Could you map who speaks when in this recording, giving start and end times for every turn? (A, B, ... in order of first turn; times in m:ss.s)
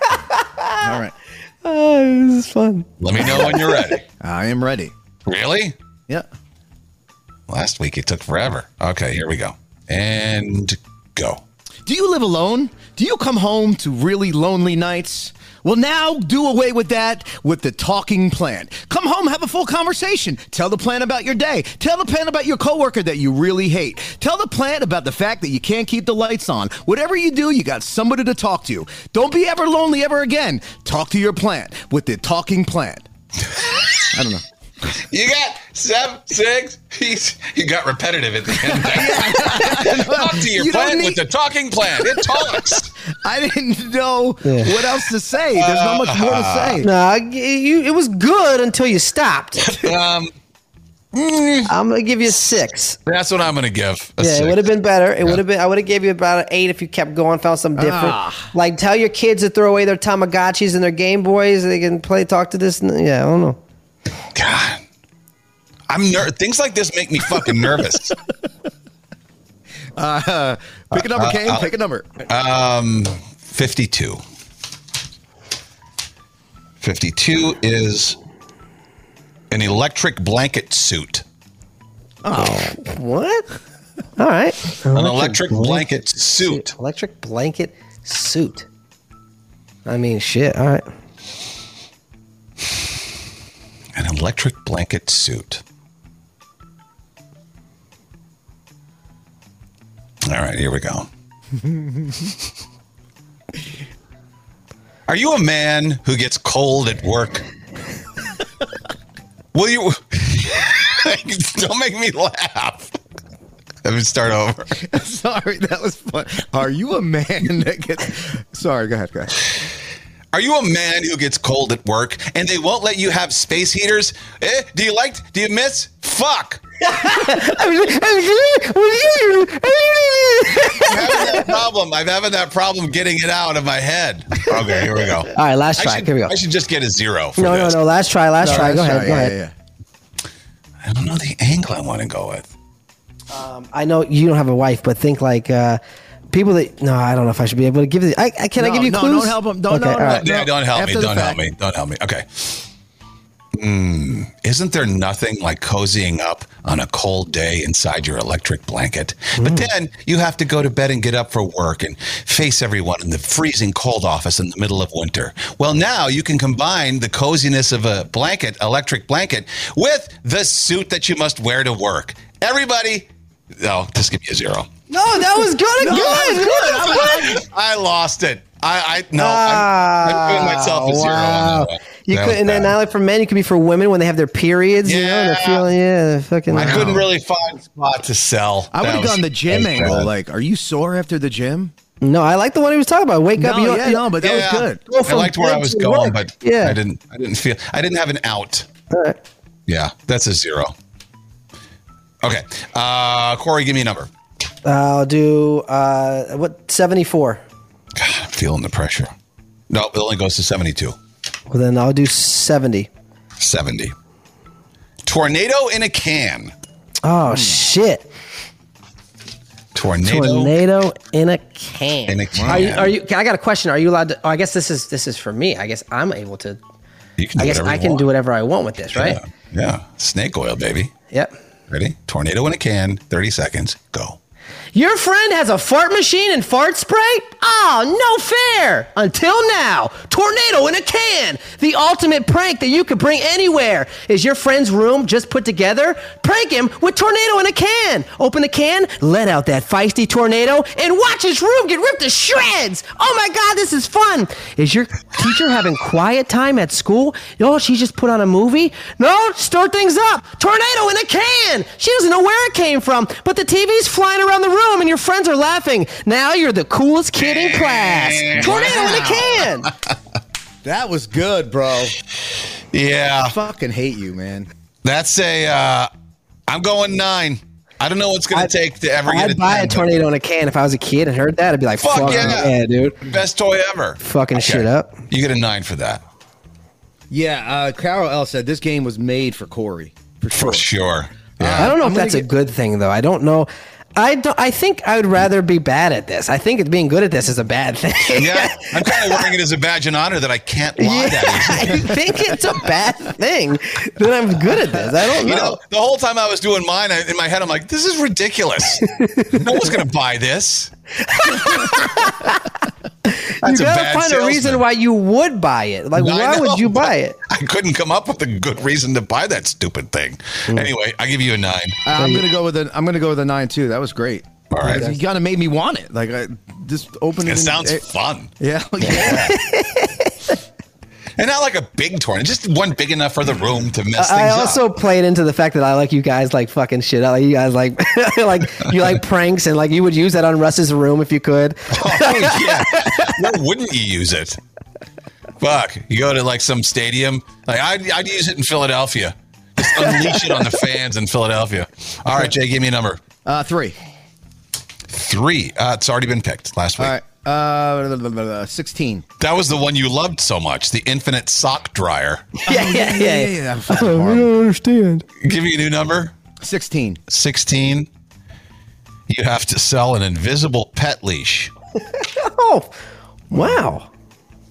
0:00.3-0:01.0 A
0:00.8-0:01.1 B
0:01.6-0:04.0 A
0:03.0-0:04.0 C
0:04.2-0:04.9 B
0:05.2-0:05.7 C
0:07.5-0:11.4 C
0:11.8-0:33.0 B
0:33.7-0:34.0 C
0:34.1-0:34.4 B
0:34.9-0:42.9 C
0:38.5-0:41.2 B
0:42.0-0:46.9 B
0:44.4-0:44.7 A
0:45.5-0:46.8 C
0:46.8-0:49.7 A
0:49.6-0:50.3 C
0:51.1-0:51.7 C
0:51.7-0:53.0 A
0:53.0-0:54.7 C
0:54.2-1:03.6 A
0:57.8-0:58.5 B
1:04.3-1:04.8 C
1:05.9-1:08.1 C
1:10.0-1:12.2 B
1:10.9-1:11.7 C
1:12.3-1:14.2 C
1:16.8-1:18.2 C
1:19.5-1:21.2 C
1:22.2-1:22.8 B
1:22.3-1:23.5 A
1:24.2-1:28.7 A
1:24.9-1:26.7 C
1:29.8-1:30.8 A
1:33.9-1:35.6 C
1:40.2-1:41.1 C
1:45.1-1:47.5 C
1:49.5-1:53.0 C
1:53.8-1:54.7 C
1:54.7-1:59.5 B
2:00.3-2:06.6 C
2:06.8-2:11.5 A
2:10.7-2:17.8 C
2:15.3-2:16.3 A
2:17.4-2:19.4 A
2:18.4-2:19.5 B
2:20.8-2:22.5 C
2:23.3-2:25.8 A
2:26.3-2:30.2 A
2:28.6-2:31.4 B
2:30.1-2:32.6 C
2:33.5-2:54.7 C
2:39.4-2:39.7 A
2:54.9-2:57.1 A
2:55.8-2:57.4 B
2:55.9-3:02.7 C
2:59.2-3:07.0 A
3:04.8-3:05.7 C
3:06.5-3:07.0 B
3:06.5-3:10.1 C
3:08.7-3:11.7 B
3:12.0-3:14.1 A
3:13.4-3:14.8 B
3:14.2-3:18.7 C
3:14.9-3:16.8 A
3:18.9-3:19.2 A
3:19.7-3:20.7 C
3:22.2-3:24.1 C
3:24.6-3:27.4 A
3:27.9-3:29.1 C
3:29.7-3:31.0 C
3:31.5-3:32.9 A
3:33.4-3:33.9 C
3:35.0-3:36.5 C
3:37.0-3:38.1 A
3:37.3-3:37.6 B
3:39.7-3:40.5 C
3:40.0-3:46.6 A
3:42.1-3:42.9 C
3:42.3-3:42.7 B
3:47.2-3:48.0 C
3:47.4-3:49.2 A
3:48.9-3:50.9 C
3:51.7-3:54.2 C
3:54.7-4:29.7 A
4:27.2-4:29.5 C
4:28.4-4:29.4 B
4:30.6-4:32.0 B
4:32.7-4:33.4 C
4:33.2-4:34.5 B
4:34.8-4:35.9 C
4:36.5-4:40.0 C
4:39.0-4:43.0 A
4:41.8-4:46.0 C
4:42.0-4:42.4 B
4:44.0-4:45.0 A
4:47.1-4:50.6 B
4:50.3-4:51.7 C
4:51.4-4:52.3 B
4:51.6-4:59.3 A
4:58.1-5:02.0 C
5:00.8-5:05.6 A
5:05.2-5:10.7 C
5:08.9-5:09.4 A
5:11.0-5:12.4 A
5:13.1-5:17.2 A
5:13.4-5:14.6 C
5:16.0-5:21.8 C
5:21.8-5:27.8 B
5:22.0-5:22.2 A
5:24.5-5:24.9 C
5:24.6-5:25.0 A
5:27.2-5:28.3 C
5:28.4-5:29.3 B
5:28.8-5:30.1 A
5:28.9-5:29.3 C
5:31.2-5:34.6 C
5:34.0-5:43.1 A
5:41.7-5:44.4 C
5:45.4-5:53.0 C
5:53.2-5:53.8 B
5:54.9-5:57.0 C
5:56.8-5:59.0 B
5:59.2-6:02.2 C
6:02.4-6:04.3 B
6:02.4-6:05.0 A
6:05.2-6:06.1 C
6:06.4-6:07.0 B
6:07.1-6:07.9 C
6:09.1-6:11.5 C
6:12.0-6:12.7 A
6:13.3-6:13.9 A
6:13.3-6:13.6 B